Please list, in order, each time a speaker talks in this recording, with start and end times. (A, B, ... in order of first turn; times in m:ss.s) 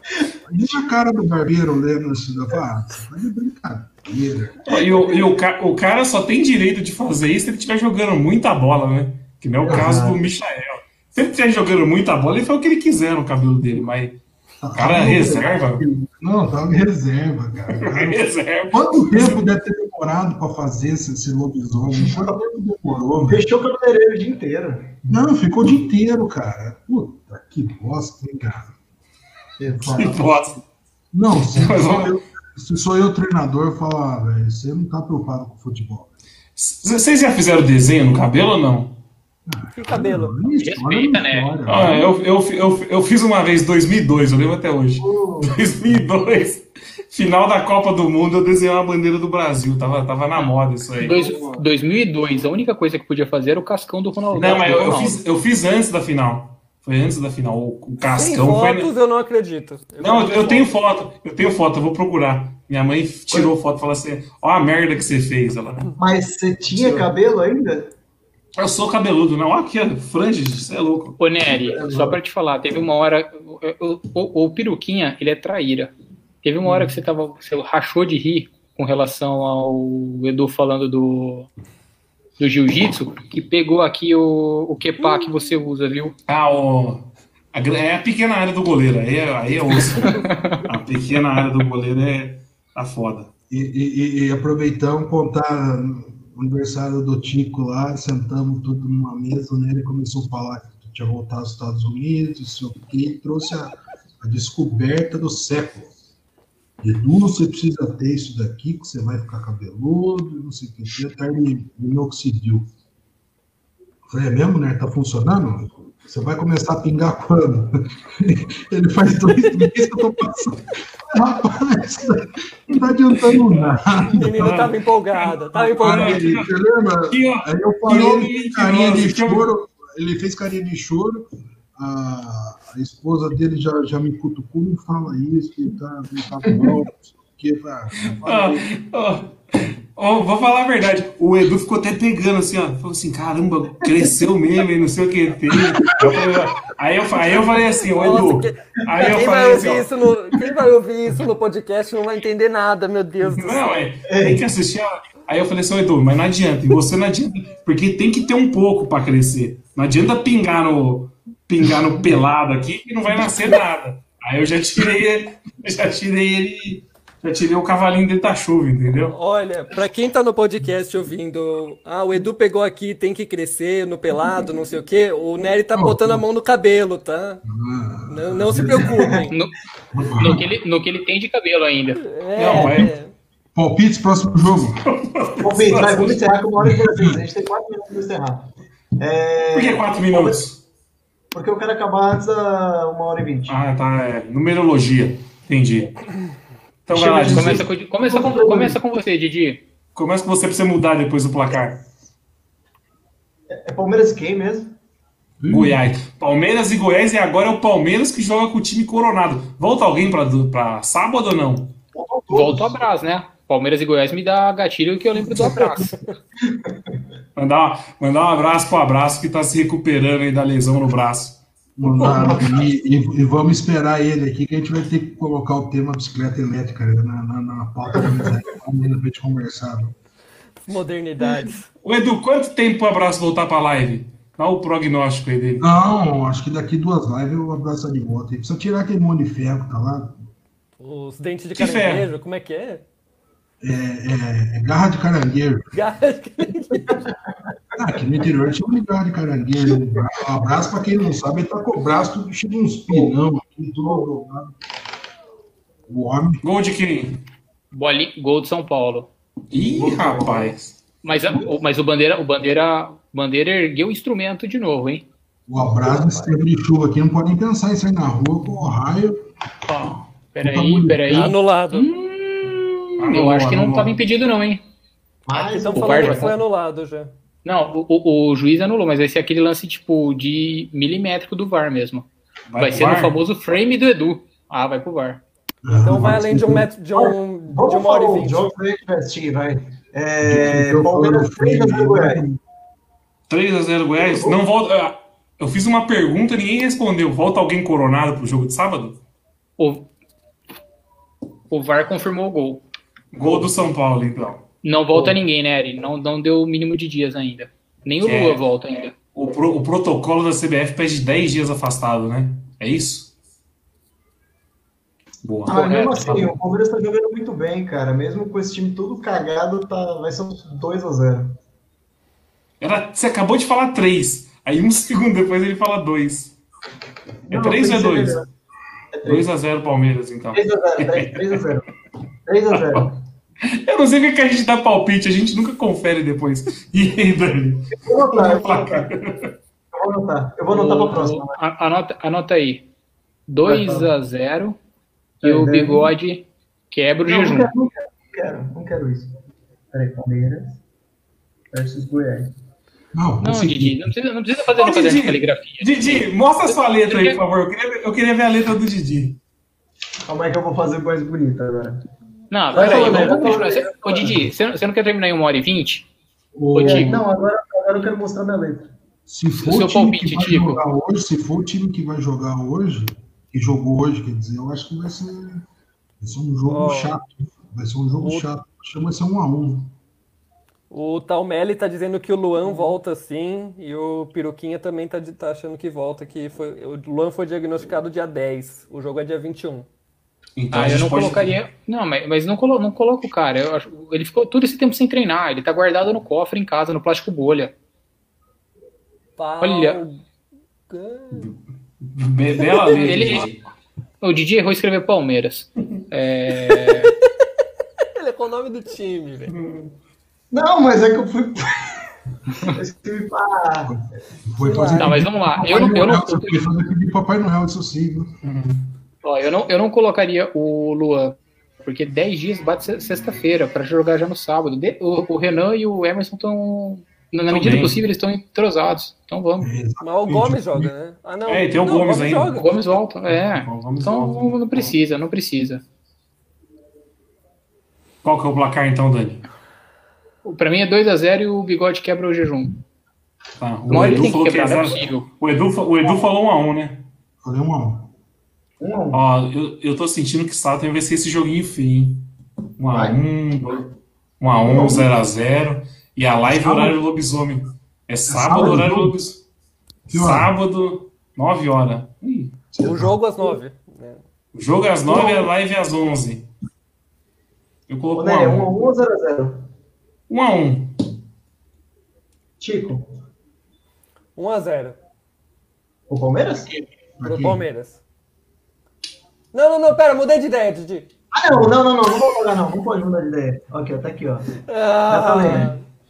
0:00.5-0:04.7 A
0:04.6-0:14.2 B
0:09.6-0:10.2 C
0:09.6-0:09.9 A
0:14.6-0:23.4 A
0:14.7-0:15.8 B
0:17.7-0:19.4 B
0:22.0-0:22.3 C
0:23.3-0:25.2 C
0:25.1-0:28.7 A
0:29.6-0:30.2 C
0:29.9-0:30.6 B
0:31.1-0:36.1 A
0:31.5-0:32.2 B
0:36.6-0:39.0 B
0:39.4-0:42.1 A
0:39.7-0:40.3 D
0:40.6-0:41.5 E
0:41.6-0:51.1 B
0:45.0-0:45.6 C
0:50.4-0:55.2 E
0:51.1-0:51.5 A
0:54.3-0:58.9 B
0:58.1-1:00.7 D
1:00.0-1:05.9 B
1:06.0-1:07.9 C
1:06.8-1:07.1 B
1:08.6-1:11.2 B
1:11.2-1:21.5 E
1:11.5-1:12.2 C
1:22.4-1:26.1 E
1:26.3-1:33.3 B
1:30.0-1:30.6 E
1:33.5-1:45.9 A
1:46.8-1:52.7 A
1:54.1-2:04.5 A
2:04.0-2:06.2 D
2:04.4-2:06.5 B
2:05.8-2:18.7 A
2:07.1-2:09.5 B
2:18.2-2:29.9 B
2:25.8-2:26.3 A
2:28.0-2:33.8 D
2:33.2-2:49.1 B
2:34.1-2:34.4 C
2:49.1-2:57.4 D
2:55.7-2:56.2 A
2:57.4-2:59.1 A
2:58.1-2:59.3 D
2:58.9-2:59.3 C
2:59.9-3:00.5 A
3:00.1-3:02.0 E
3:02.0-3:03.1 D
3:02.4-3:02.9 B
3:02.5-3:02.9 A
3:03.5-3:04.8 A
3:04.6-3:06.3 B
3:05.4-3:10.4 C
3:06.6-3:07.2 A
3:09.5-3:10.6 B
3:11.3-3:13.6 C
3:13.5-3:15.9 B
3:16.9-3:17.7 B
3:16.9-3:18.8 C
3:17.3-3:19.6 E
3:20.0-3:21.8 B
3:23.5-3:24.8 C
3:25.4-3:25.8 A
3:25.5-3:31.7 B
3:31.9-3:32.8 C
3:32.3-3:36.0 E
3:37.4-3:41.4 B
3:41.8-3:49.9 A
3:42.0-3:42.5 C
3:50.6-3:51.7 D
3:51.8-3:55.6 B
3:55.6-4:00.2 A
4:00.8-4:02.8 D
4:01.6-4:02.1 B
4:03.6-4:05.7 A
4:05.7-4:07.0 D
4:07.8-4:14.5 A
4:15.9-4:16.4 A
4:16.4-4:17.2 B
4:17.7-4:19.1 E
4:19.5-4:20.8 B
4:19.5-4:20.6 C
4:21.0-4:25.1 E
4:25.5-4:29.2 A
4:25.6-4:26.3 C
4:29.7-4:34.6 E
4:30.4-4:31.3 A
4:31.1-4:31.9 D
4:33.0-4:34.0 B
4:35.3-4:36.4 C
4:35.3-4:36.4 E
4:35.5-4:37.1 D
4:37.4-4:45.2 E
4:42.5-4:43.1 B
4:45.6-4:46.7 A
4:45.7-4:48.5 D
4:47.0-4:52.2 C
4:50.2-4:52.4 A
4:53.3-4:59.0 B
4:54.0-4:54.4 C
4:59.6-4:59.9 E
5:01.5-5:02.6 E
5:03.1-5:04.4 B
5:04.6-5:08.9 E
5:08.0-5:08.4 B
5:09.1-5:13.1 B
5:15.2-5:16.3 B
5:15.4-5:21.3 C
5:22.6-5:26.4 B
5:27.3-5:28.3 C
5:27.3-5:28.2 B
5:28.9-5:29.3 C
5:29.0-5:31.4 B
5:30.3-5:31.6 C
5:32.2-5:33.0 C
5:32.5-5:32.9 B
5:33.4-5:39.3 B
5:37.7-5:38.9 C
5:39.7-5:41.4 C
5:40.5-5:42.7 E
5:43.3-5:44.6 E
5:43.4-5:43.9 C
5:45.2-5:45.9 C
5:45.2-5:47.5 E
5:47.0-5:49.1 C
5:49.7-5:50.6 C
5:51.5-5:52.3 C
5:52.9-5:53.9 A
5:53.2-5:57.2 E
5:54.6-5:59.2 B
6:00.1-6:01.8 C
6:02.3-6:05.9 E
6:02.5-6:04.2 C
6:04.0-6:04.3 A
6:06.4-6:07.0 A
6:06.5-6:07.0 E
6:06.6-6:08.7 C
6:09.1-6:15.4 A
6:09.4-6:10.6 E
6:16.0-6:19.7 A
6:16.5-6:17.0 D
6:18.0-6:18.3 D
6:20.7-6:29.7 D
6:30.4-6:31.3 B
6:30.5-6:37.5 E
6:39.2-6:40.0 D
6:39.4-6:39.8 E
6:40.7-6:41.3 D
6:41.1-6:43.4 B
6:42.4-6:43.2 D
6:42.6-6:43.3 E
6:44.0-6:46.9 E
6:47.9-6:49.3 D
6:49.3-6:49.7 B
6:50.3-6:51.7 C
6:52.4-6:53.8 C
6:53.7-6:58.1 A
6:54.4-6:55.0 D
6:54.8-6:56.4 E
6:58.2-6:58.6 B
6:59.0-7:09.5 E
7:07.3-7:07.8 B
7:09.4-7:10.7 A
7:09.8-7:12.5 D
7:11.3-7:12.4 B
7:12.3-7:15.6 E
7:13.1-7:14.7 B
7:18.0-7:19.3 B
7:20.2-7:22.6 E
7:23.4-7:26.8 B
7:23.6-7:24.1 A
7:23.7-7:25.1 E
7:27.2-7:27.9 A
7:28.6-7:29.0 C
7:28.9-7:32.1 B
7:32.6-7:33.7 B
7:32.7-7:33.0 C
7:34.2-7:39.2 B
7:34.4-7:34.9 C
7:36.2-7:36.8 A
7:38.1-7:39.0 A
7:39.9-7:40.3 A
7:39.9-7:42.3 B
7:42.5-7:43.0 A
7:42.6-7:44.0 D
7:44.3-7:46.3 B
7:47.7-7:48.5 B
7:48.0-7:49.4 C
7:50.1-7:50.8 B
7:52.4-7:52.8 C
7:54.2-7:54.8 D
7:55.9-7:56.5 C
7:56.4-7:57.4 A
7:57.0-7:57.8 D
7:59.3-8:00.9 D
8:01.1-8:04.3 C
8:04.4-8:05.6 D
8:04.9-8:05.5 C